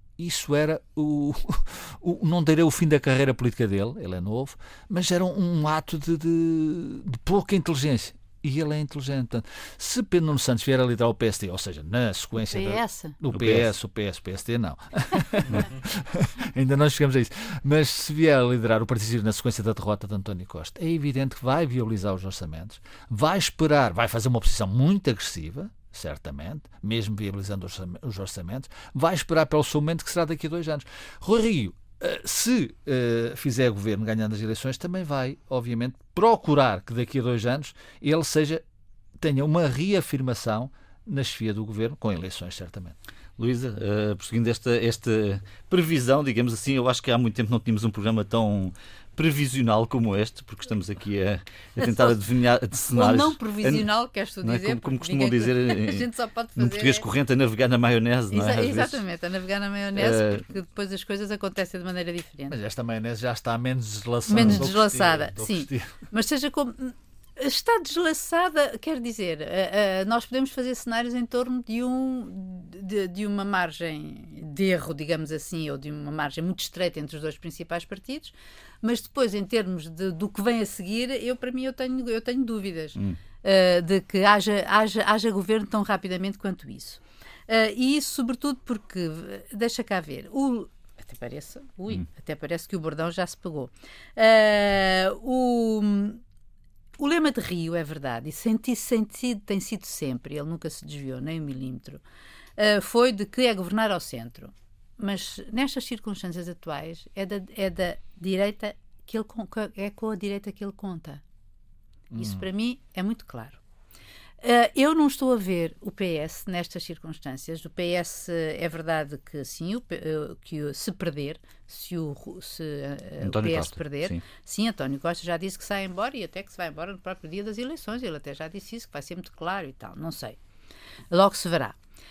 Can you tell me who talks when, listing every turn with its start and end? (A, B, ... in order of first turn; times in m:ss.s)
0:00.2-0:38.6 A
0:12.5-0:13.2 B
0:13.3-0:13.7 C
0:39.2-0:43.0 A
0:43.4-0:53.9 C
0:51.8-0:52.2 B
0:52.9-0:57.1 B
0:54.4-0:59.0 C
0:58.3-1:02.6 B
1:00.0-1:00.4 C
1:02.5-1:05.9 A
1:04.2-1:36.2 B
1:37.0-1:42.0 B
1:42.6-1:51.2 B
1:52.1-1:52.5 A
1:52.2-1:53.6 B
1:54.4-2:10.4 B
2:03.2-2:04.2 C
2:11.1-2:11.8 B